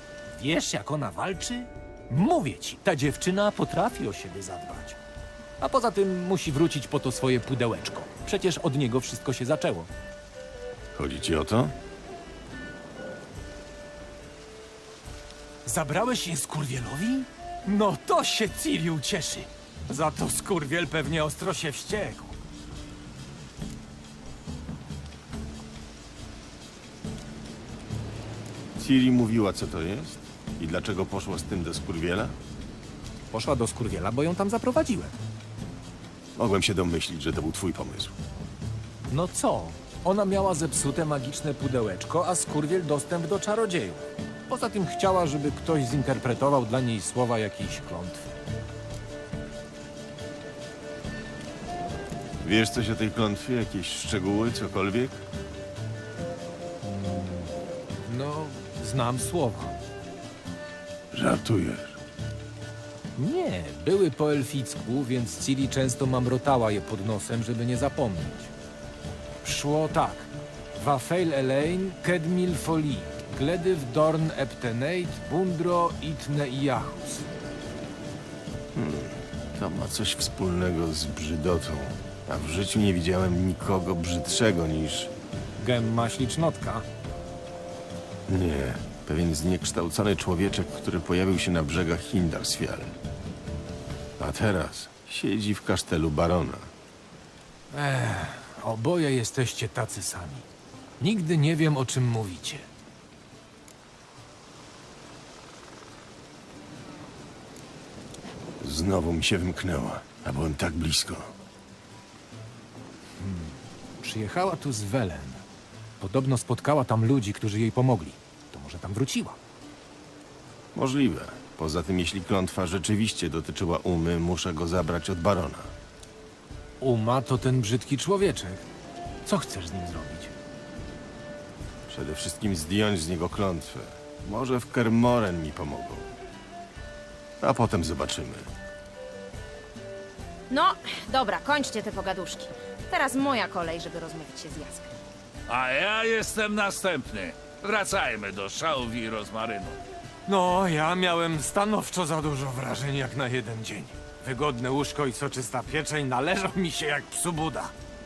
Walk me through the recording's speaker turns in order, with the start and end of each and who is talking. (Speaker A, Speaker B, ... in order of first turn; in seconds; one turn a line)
Speaker A: 0.3-5.0
Speaker A: 5.6-9.9
Speaker B: 10.9-11.7
Speaker A: 15.7-22.4
Speaker B: 28.8-32.4
Speaker A: 33.3-35.2
Speaker B: 36.4-38.1
Speaker A: 39.1-48.3
Speaker B: 52.4-55.2
Speaker A: 56.8-59.8
Speaker B: 61.1-62.0
Speaker A: 63.2-68.5
Speaker A: 69.4-77.3
Speaker B: 78.8-85.1
Speaker A: 85.6-86.8
Speaker B: 88.3-93.0
Speaker B: 94.2-96.7
Speaker A: 97.7-100.5
Speaker A: 101.0-102.7
Speaker B: 108.6-111.3
Speaker A: 113.2-115.4
Speaker A: 116.0-119.4
Speaker B: 120.7-125.7
Speaker A: 126.8-128.6
Speaker A: 129.2-130.3
Speaker B: 131.9-136.1
Speaker B: 137.4-138.5
Speaker C: 140.5-144.9
Speaker D: 145.5-149.8
Speaker A: 150.3-157.7